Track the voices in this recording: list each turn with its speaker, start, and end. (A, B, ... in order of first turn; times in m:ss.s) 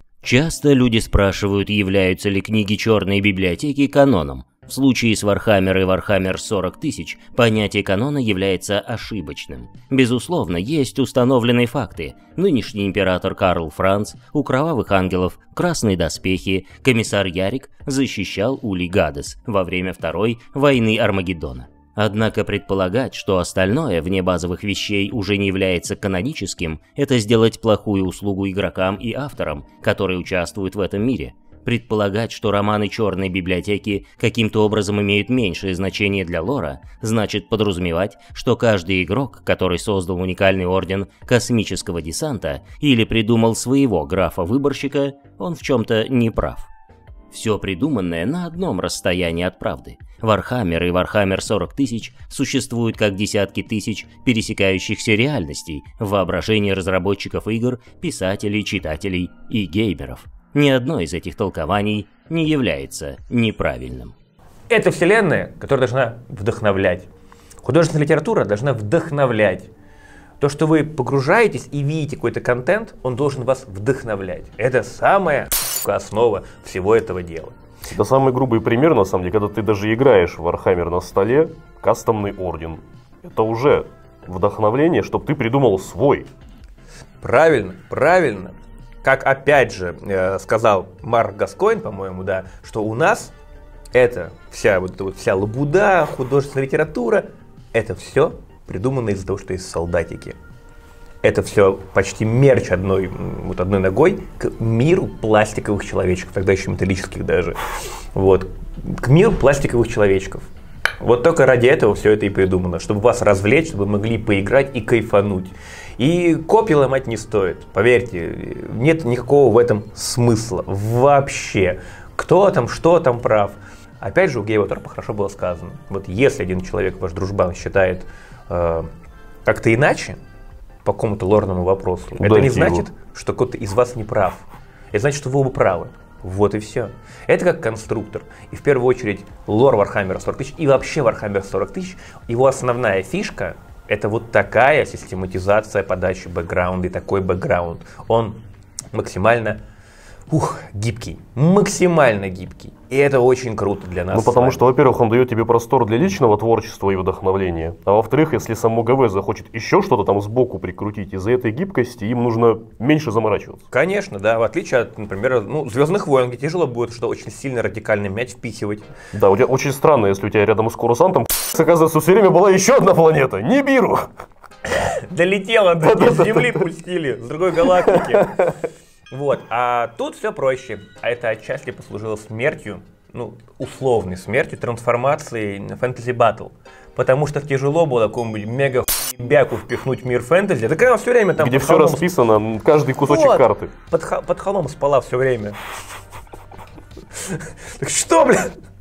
0:00.2-0:46.7 A
0:47.3-1:04.1 A
1:04.7-1:07.1 B
1:07.6-1:09.7 B
1:10.4-1:17.6 B
1:17.9-1:26.3 C
1:27.2-1:33.3 B
1:33.9-1:40.4 B
1:41.2-1:47.6 B
1:48.1-1:50.4 B
1:51.0-2:08.9 B
2:09.5-2:10.2 B
2:10.8-2:28.4 B
2:12.2-2:12.9 C
2:28.9-2:29.6 B
2:30.3-2:34.6 B
2:34.1-2:43.7 C
2:43.7-2:48.9 B
2:49.1-2:54.1 C
2:54.7-2:58.5 B
2:55.8-2:56.6 C
2:57.8-2:58.5 C
2:59.1-3:12.1 B
3:11.4-3:13.7 C
3:13.0-3:15.6 B
3:17.2-3:18.5 B